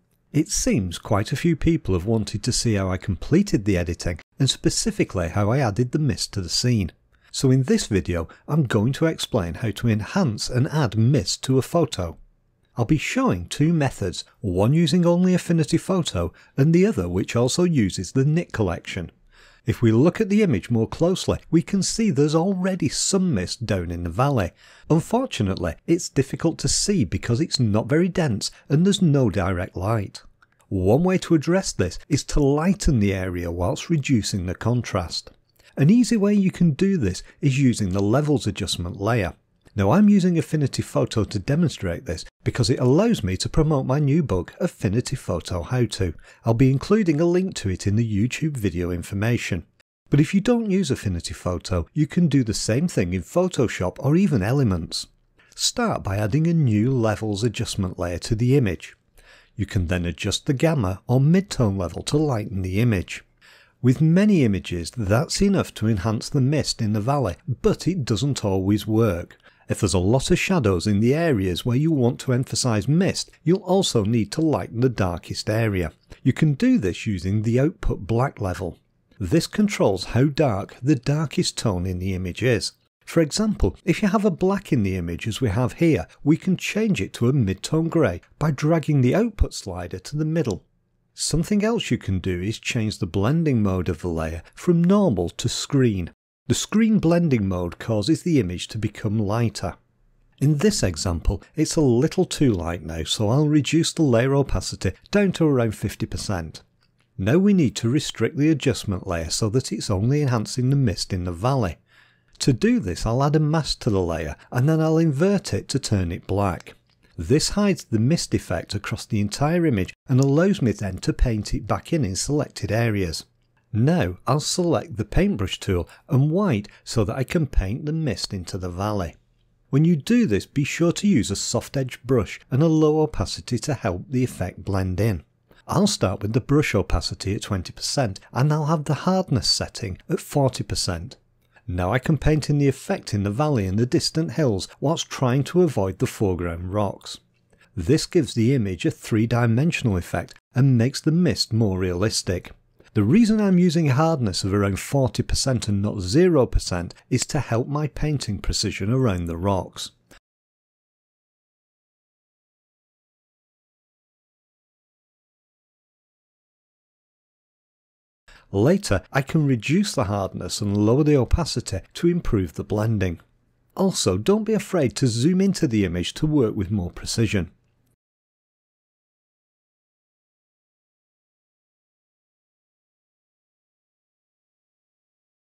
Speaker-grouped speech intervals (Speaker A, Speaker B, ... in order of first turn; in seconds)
Speaker A: 0.3-12.2, 12.8-19.1, 19.6-59.0, 59.6-63.2, 63.8-99.7, 100.4-106.6, 107.2-111.8, 112.4-129.1, 129.7-147.2, 147.7-159.9, 168.5-173.2, 173.8-177.5